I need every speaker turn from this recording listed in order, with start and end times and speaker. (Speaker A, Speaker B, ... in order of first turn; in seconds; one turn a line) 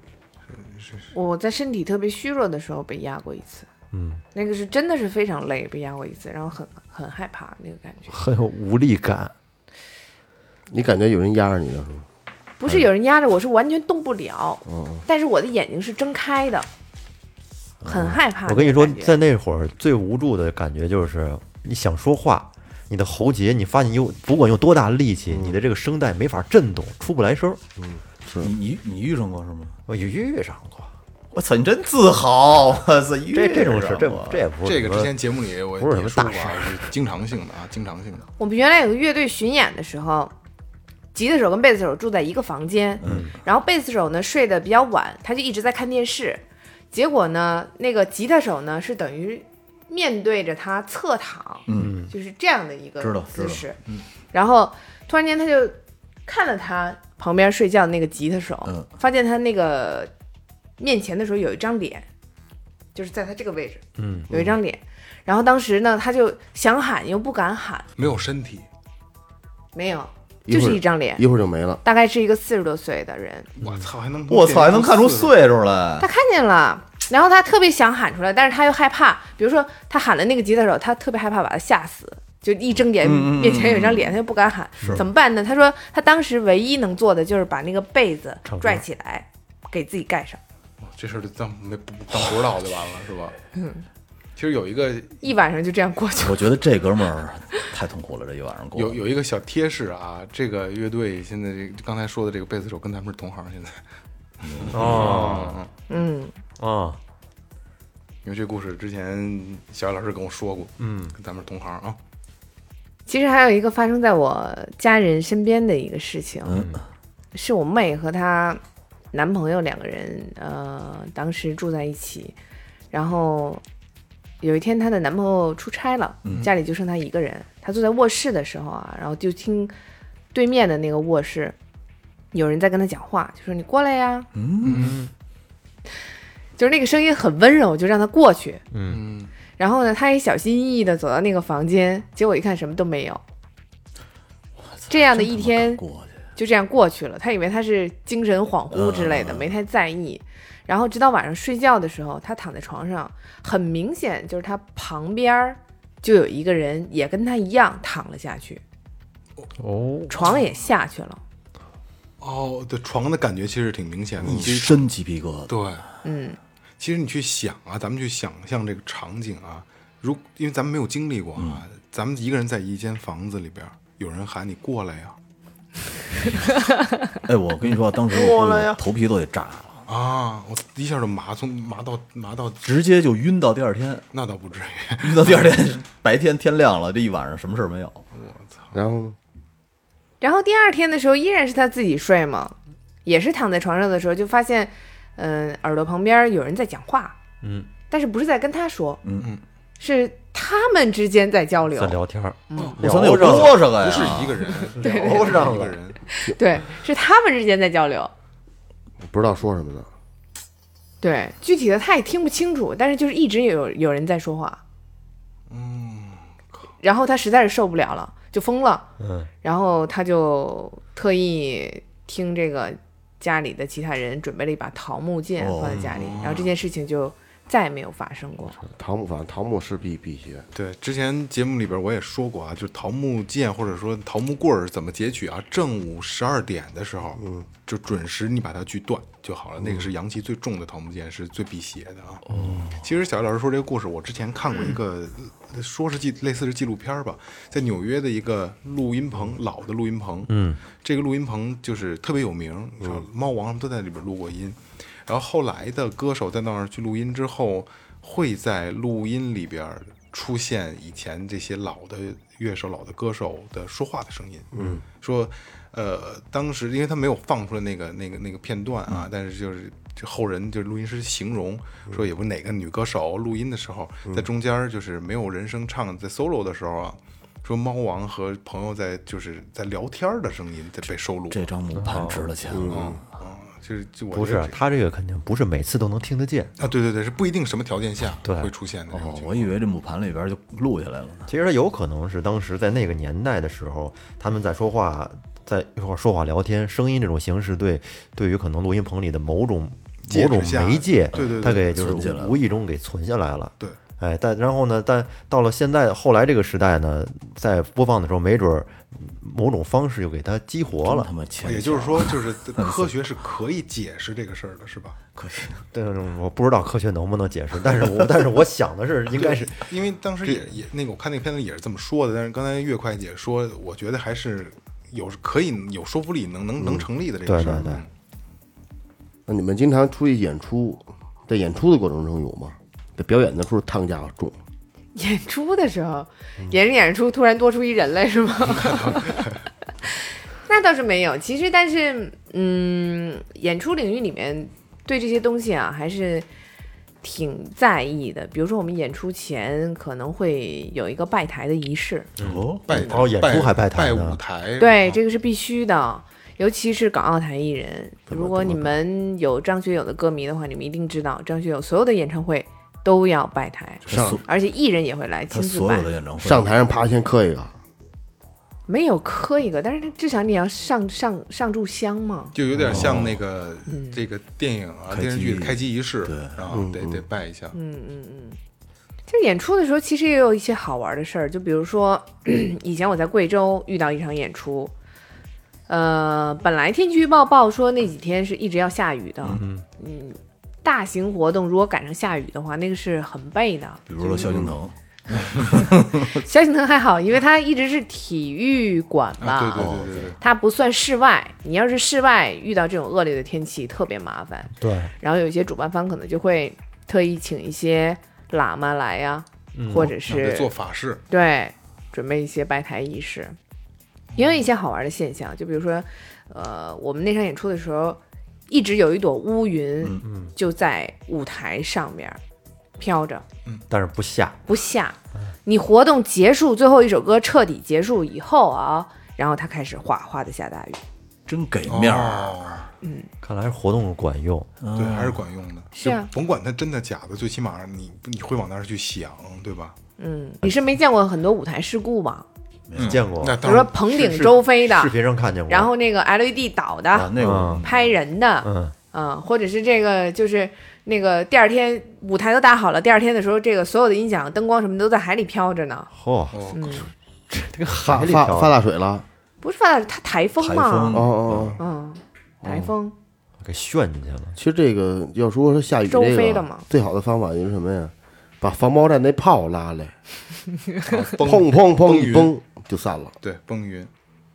Speaker A: 0.5-1.1
Speaker B: 1.1-3.7
Speaker C: 3.9-4.2
Speaker B: 4.3-8.2
Speaker C: 8.1-9.3
Speaker D: 10.7-12.1
Speaker B: 12.6-16.7
Speaker D: 14.7-15.0
Speaker B: 17.8-19.1
Speaker E: 17.8-18.1
Speaker C: 18.4-27.6
Speaker D: 25.3-25.6
Speaker D: 27.8-28.5
Speaker E: 28.4-29.8
Speaker C: 29.9-30.9
Speaker E: 31.3-34.4
Speaker C: 33.3-35.1
Speaker A: 34.6-38.3
Speaker C: 35.8-36.8
Speaker B: 38.4-40.3
Speaker B: 41.1-53.8
Speaker E: 43.0-43.3
Speaker C: 43.0-43.3
Speaker E: 51.7-52.0
Speaker C: 51.7-52.1
Speaker E: 53.0-54.0
Speaker B: 54.3-60.1
Speaker B: 60.8-62.0
Speaker B: 62.9-67.9
Speaker C: 64.0-64.3
Speaker A: 68.0-68.7
Speaker B: 69.7-71.2
Speaker D: 70.5-71.8
Speaker B: 71.8-73.5
Speaker A: 73.6-75.3
Speaker E: 74.3-76.1
Speaker B: 76.0-90.4
Speaker E: 82.9-84.2
Speaker C: 88.5-88.8
Speaker A: 90.8-93.3
Speaker B: 93.5-93.8
Speaker A: 94.3-95.3
Speaker B: 95.2-96.5
Speaker E: 96.2-99.0
Speaker A: 98.7-103.8
Speaker E: 104.4-105.3
Speaker A: 104.5-105.7
Speaker C: 104.7-105.6
Speaker B: 105.9-106.3
Speaker C: 106.6-107.0
Speaker A: 108.2-112.0
Speaker C: 110.8-111.1
Speaker B: 113.1-116.6
Speaker E: 116.4-116.8
Speaker B: 117.3-118.6
Speaker B: 119.1-122.3
Speaker B: 122.9-123.6
Speaker B: 124.4-129.7
Speaker E: 126.2-126.5
Speaker B: 130.3-131.6
Speaker B: 132.3-134.3
Speaker E: 134.3-135.0
Speaker A: 134.6-135.0
Speaker C: 134.7-135.1
Speaker B: 136.6-138.6
Speaker C: 138.7-139.0
Speaker A: 138.9-139.3
Speaker B: 139.6-143.2
Speaker E: 144.6-146.2
Speaker B: 144.9-145.8
Speaker B: 146.3-158.6
Speaker E: 148.7-149.5
Speaker C: 159.6-160.1
Speaker B: 160.1-161.2
Speaker A: 162.2-164.8
Speaker E: 164.2-165.6
Speaker A: 165.5-165.8
Speaker B: 166.0-166.4
Speaker A: 166.8-175.2
Speaker E: 171.3-171.7
Speaker E: 177.2-179.8
Speaker C: 178.1-178.8
Speaker A: 179.9-182.6
Speaker E: 182.6-184.1
Speaker A: 184.1-185.6
Speaker E: 185.0-188.0
Speaker A: 188.1-188.8
Speaker D: 188.7-189.2
Speaker B: 190.2-197.2
Speaker C: 197.4-197.7
Speaker B: 197.9-199.0
Speaker E: 199.0-199.3
Speaker B: 199.8-202.8
Speaker C: 201.7-203.8
Speaker A: 202.6-206.0
Speaker E: 202.8-204.7
Speaker B: 204.5-205.5
Speaker C: 204.8-205.8
Speaker B: 206.1-208.1
Speaker D: 209.0-209.9
Speaker B: 211.0-214.6
Speaker A: 215.5-216.3
Speaker B: 216.8-218.9
Speaker C: 219.0-219.3
Speaker B: 219.4-228.6
Speaker E: 225.4-226.1
Speaker A: 225.7-226.5
Speaker D: 228.8-230.4
Speaker A: 230.5-242.2
Speaker D: 237.2-237.5
Speaker C: 242.3-242.8
Speaker A: 242.8-281.5
Speaker C: 250.3-250.6
Speaker D: 264.5-264.8
Speaker E: 281.3-283.0
Speaker C: 281.8-282.3
Speaker D: 282.5-283.0
Speaker A: 282.7-284.6
Speaker C: 284.1-286.5
Speaker A: 286.6-289.5
Speaker C: 288.2-288.5
Speaker E: 288.9-291.3
Speaker C: 291.3-311.1
Speaker A: 300.1-301.7
Speaker E: 301.1-302.4
Speaker E: 310.8-312.9
Speaker A: 311.4-315.0
Speaker E: 315.1-315.6
Speaker C: 315.7-319.6
Speaker A: 319.1-327.9
Speaker C: 320.2-320.5
Speaker D: 326.6-326.9
Speaker C: 327.2-327.8
Speaker D: 329.2-334.4
Speaker B: 334.9-339.3
Speaker A: 338.5-339.2
Speaker B: 340.4-346.3
Speaker B: 347.0-352.1
Speaker C: 352.2-354.2
Speaker E: 352.2-352.7
Speaker A: 352.7-355.0
Speaker B: 354.6-365.9
Speaker D: 358.1-358.7
Speaker E: 363.9-364.2
Speaker D: 363.9-364.2
Speaker E: 365.3-366.5
Speaker D: 366.2-367.5
Speaker B: 368.7-372.3
Speaker A: 372.3-377.6
Speaker E: 372.6-373.2
Speaker B: 373.7-374.0
Speaker E: 374.9-376.5
Speaker D: 376.5-377.0
Speaker B: 377.5-378.4
Speaker B: 379.1-384.7
Speaker B: 385.7-394.3
Speaker C: 389.3-389.6
Speaker E: 393.9-396.2
Speaker B: 396.0-410.5
Speaker A: 399.2-400.2
Speaker E: 399.6-400.1
Speaker C: 404.6-404.9
Speaker C: 409.5-409.9
Speaker A: 410.1-411.0
Speaker B: 411.1-413.3
Speaker A: 414.1-414.4
Speaker B: 414.1-422.2
Speaker C: 420.0-420.3
Speaker B: 422.8-423.2
Speaker C: 423.7-424.4
Speaker B: 424.5-430.8
Speaker E: 431.3-432.6
Speaker A: 431.6-432.7
Speaker B: 432.8-433.1
Speaker C: 433.2-434.5
Speaker E: 434.6-435.2
Speaker A: 434.7-439.8
Speaker B: 435.7-436.1
Speaker B: 440.0-442.2
Speaker E: 442.7-443.1
Speaker A: 442.8-444.3
Speaker C: 442.8-443.4
Speaker B: 443.4-444.9
Speaker C: 444.2-445.7
Speaker B: 445.5-455.9
Speaker E: 446.9-447.8
Speaker C: 447.2-447.6
Speaker C: 448.4-448.7
Speaker C: 455.9-458.6
Speaker A: 456.3-456.6
Speaker B: 456.5-456.9
Speaker D: 457.8-459.1
Speaker B: 459.4-461.0
Speaker E: 460.4-461.6
Speaker D: 460.9-461.6
Speaker B: 461.6-462.9
Speaker D: 462.4-462.7
Speaker C: 463.4-464.4
Speaker D: 464.4-469.9
Speaker B: 465.9-466.6
Speaker A: 470.8-472.3
Speaker D: 471.2-473.1
Speaker A: 473.2-473.9